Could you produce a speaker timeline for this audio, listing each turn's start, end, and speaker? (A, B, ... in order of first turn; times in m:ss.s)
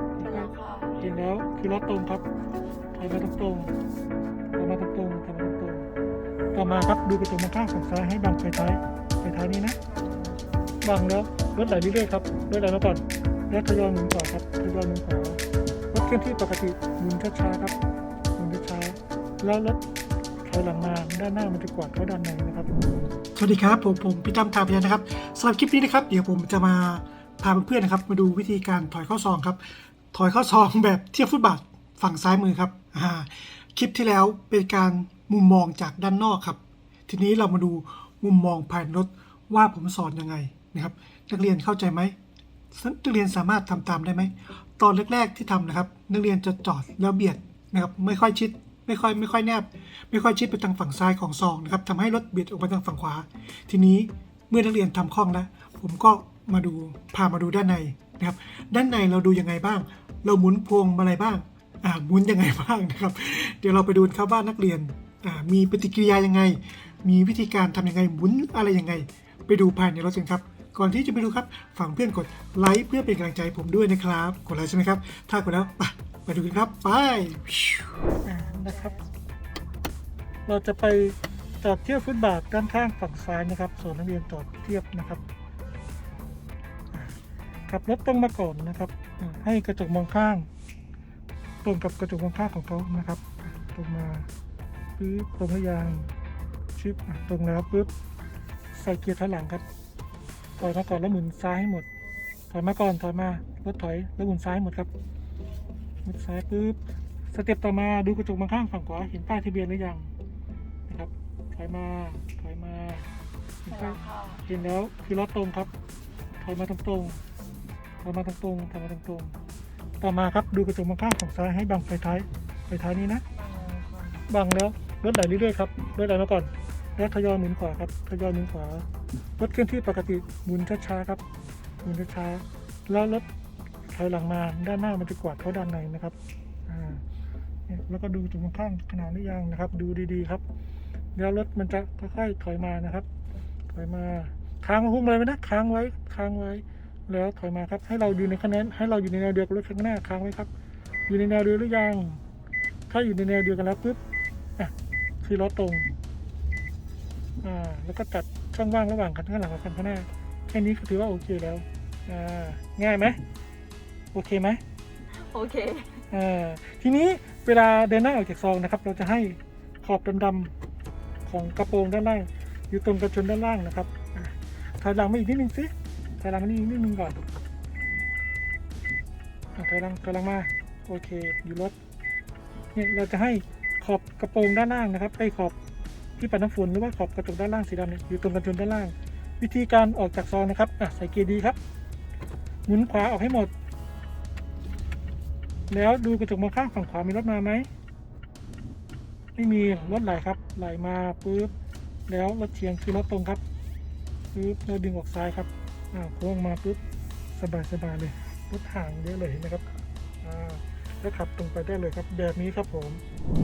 0:00.2-0:02.2 A
0:00.2-0:01.0 B
0:02.9-0:03.7 A
0:04.5-0:05.9 A
0:06.5-0:09.8 A
0:10.8-0:17.8 A
0:18.4-0:19.8 A
0:20.4-0:22.7 A
0:23.4-0:29.6 C
0:30.1-0:42.1 C
0:42.7-1:17.9 C
1:18.2-1:19.0 A
1:20.4-1:25.2 A
1:27.7-1:30.5 A
1:31.6-1:34.3 A
1:35.0-1:36.1 A
1:36.8-1:37.9 A
1:38.7-1:39.6 A
1:40.6-1:41.9 A
1:42.5-1:44.9 A
1:46.0-1:46.8 A
1:47.3-1:50.1 A
1:50.9-1:53.1 A
1:53.6-1:55.7 A
1:53.8-1:54.4 B
1:56.4-1:57.2 A
1:58.0-1:59.4 A
2:00.0-2:03.2 A
2:03.4-2:04.0 B
2:04.3-2:08.8 A
2:09.4-2:11.2 A
2:11.8-2:13.2 A
2:13.9-2:17.0 A
2:17.7-2:20.4 A
2:21.1-2:23.1 A
2:23.7-2:30.5 A
2:31.1-2:32.2 A
2:32.9-2:34.0 A
2:34.6-2:35.9 A
2:37.4-2:43.2 A
2:44.1-2:44.6 A
2:45.1-2:46.0 B
2:46.1-2:50.5 A
2:51.2-2:57.2 A
2:59.6-3:01.7 A
3:02.7-3:05.6 A
3:06.2-3:11.6 A
3:12.6-3:13.5 A
3:15.7-3:17.7 A
3:19.4-3:21.5 A
3:22.1-3:23.4 A
3:24.3-3:26.8 A
3:27.3-3:29.7 A
3:30.2-3:33.0 A